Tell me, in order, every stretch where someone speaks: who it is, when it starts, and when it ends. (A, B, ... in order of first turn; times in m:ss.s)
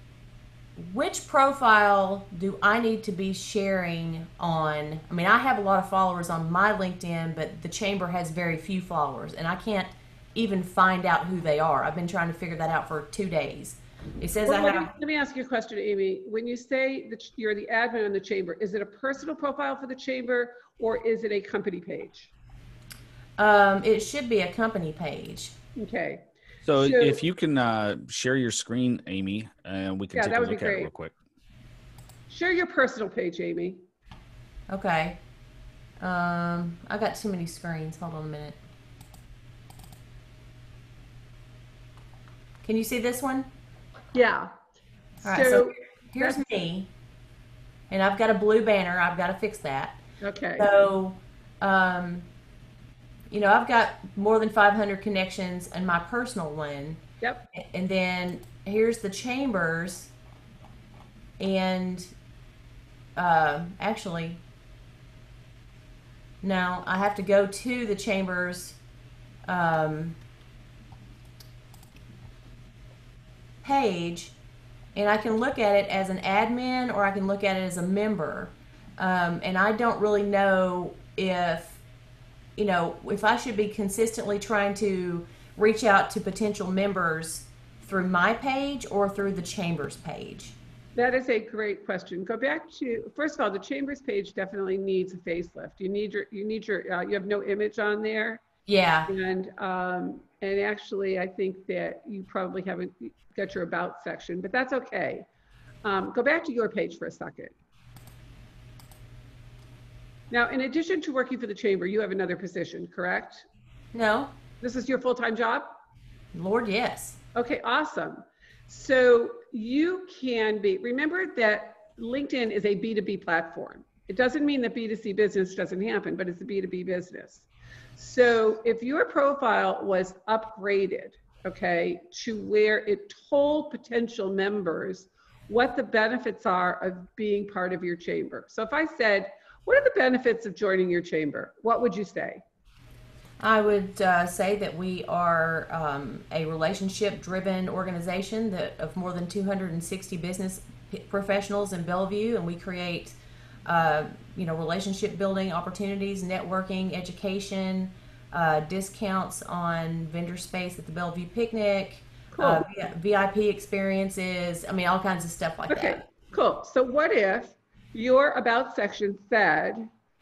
0:00.8-0:14.9 A
0:14.5-0:22.3 B
0:23.4-0:25.6 A
0:25.8-0:27.2 B
0:26.6-0:31.1 C
0:30.2-0:30.9 B
0:32.3-0:33.8 B
0:34.7-0:35.2 A
0:36.0-0:38.6 A
0:42.6-0:43.5 A
0:44.1-0:44.5 B
0:45.2-0:46.4 B
0:45.2-0:46.9 A
0:47.9-0:50.0 A
0:50.2-0:50.9 B
0:50.6-0:52.3 A
0:53.3-0:57.0 A
0:57.5-1:00.1 A
1:01.4-1:02.1 A
1:03.2-1:04.4 A
1:06.4-1:08.8 A
1:09.5-1:10.2 A
1:13.6-1:14.4 A
1:15.0-1:21.8 A
1:22.6-1:30.6 A
1:31.0-1:38.4 B
1:38.7-1:39.1 A
1:39.1-1:45.3 B
1:45.8-1:47.5 B
1:50.3-1:53.5 B
1:53.9-1:54.3 A
1:54.6-1:55.8 B
1:56.3-1:57.2 A
1:57.4-2:22.4 B
2:23.4-2:46.1 A
2:42.3-2:42.6 B
2:45.7-2:49.9 B